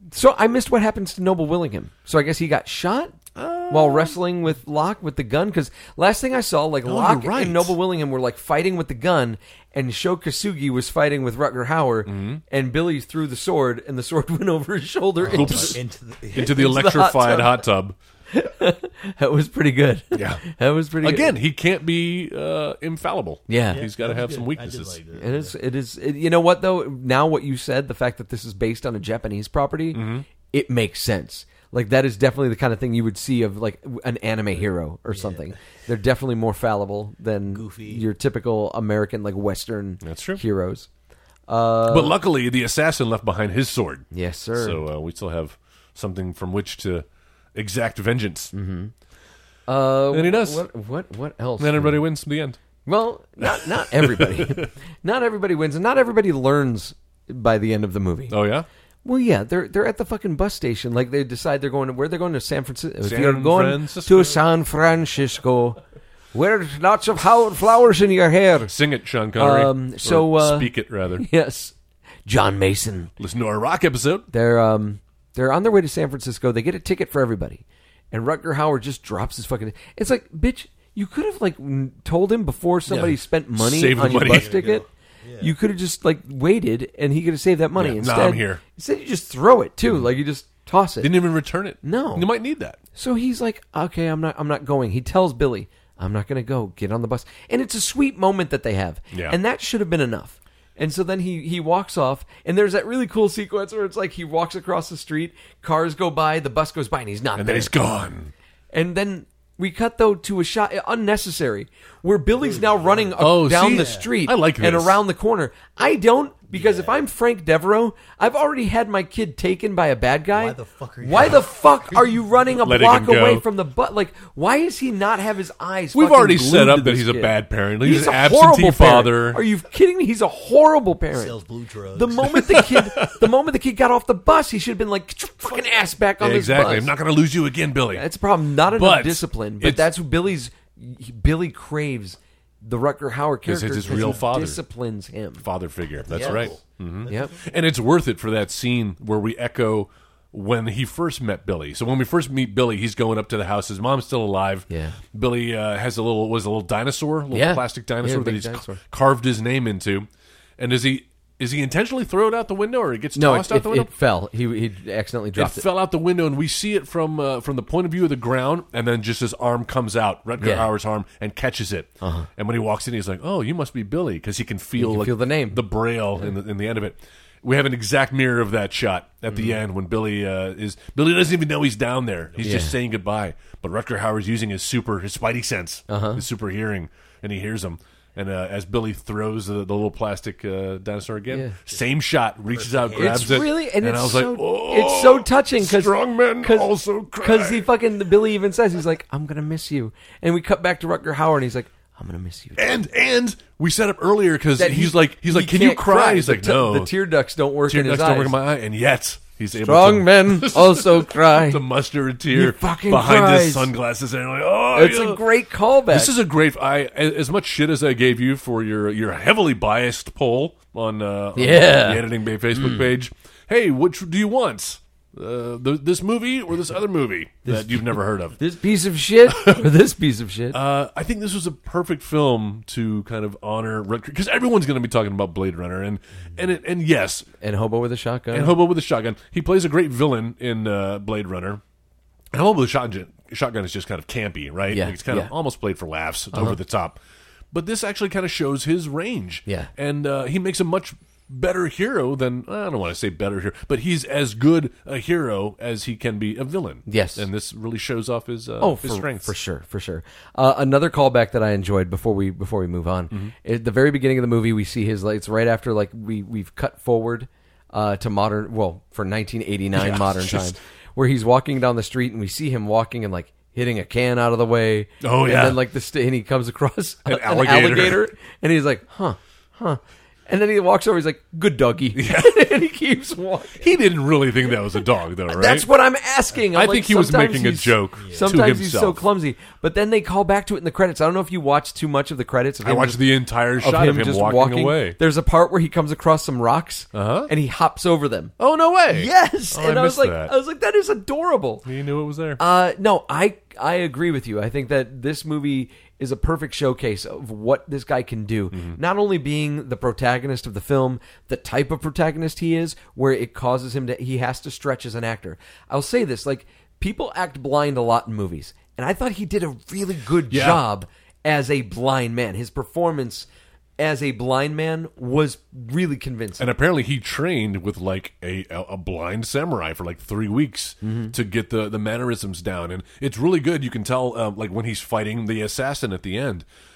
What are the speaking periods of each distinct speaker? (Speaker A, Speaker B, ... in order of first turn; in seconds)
Speaker A: 0.1-15.8, 16.4-17.6, 18.3-21.4, 23.5-23.9, 25.2-40.9, 41.5-42.2, 44.1-44.8, 48.5-48.9, 49.7-52.0, 52.9-58.4, 59.0-65.8, 66.3-68.7, 69.4-71.7, 72.2-73.1, 74.3-84.9, 85.4-91.1, 91.8-92.3, 93.0-107.7, 108.7-131.4, 131.9-136.9, 137.9-145.4, 146.1-146.5, 147.1-147.4, 154.7-155.0, 157.3-158.8, 163.2-165.7, 170.4-170.7, 172.0-172.3, 174.8-175.6, 179.3-179.6, 182.4-182.8, 185.9-186.2, 191.3-191.6, 192.9-202.8, 204.6-208.4, 209.6-211.6, 212.3-213.7, 214.7-216.1, 221.4-222.9, 228.4-230.6, 237.4-238.6, 244.7-245.3, 246.3-246.6, 256.9-257.3, 258.6-283.8, 284.5-293.0, 293.6-298.3, 298.9-301.7, 302.4-323.3, 323.8-326.5, 330.8-331.1
Speaker B: 3.4-4.2, 6.9-7.8, 12.1-12.4, 15.3-15.8, 16.3-17.9, 20.1-20.4, 21.0-25.0, 29.9-30.3, 40.0-40.4, 41.9-48.5, 50.1-50.6, 51.6-52.6, 53.4-54.7, 58.3-58.7, 63.0-64.4, 68.7-71.2, 73.2-74.3, 82.9-84.5, 87.8-88.6, 91.0-92.8, 107.4-108.3, 113.2-115.0, 122.6-123.4, 125.9-129.4, 132.3-133.2, 136.2-138.1, 138.7-139.9, 143.5-144.6, 145.4-160.1, 160.6-163.9, 165.4-197.7, 202.6-206.9, 207.7-215.2, 215.9-228.4, 229.3-229.7, 230.5-237.3, 238.3-241.6, 242.3-247.0, 247.5-259.3, 269.8-270.6, 275.0-275.6, 277.1-278.0, 281.9-282.4, 283.6-285.7, 286.5-289.0, 292.6-295.0, 296.9-297.3, 298.4-300.3, 301.7-302.4, 308.5-308.8, 320.3-320.6, 326.4-336.4
Speaker C: 15.2-16.6, 23.7-25.6, 35.1-35.5, 37.5-38.0, 84.1-85.5, 112.4-114.1, 116.5-117.1, 120.3-122.2, 131.1-132.6, 143.9-144.2, 145.9-147.3, 191.7-191.9, 192.4-193.5, 227.5-227.8, 288.0-288.4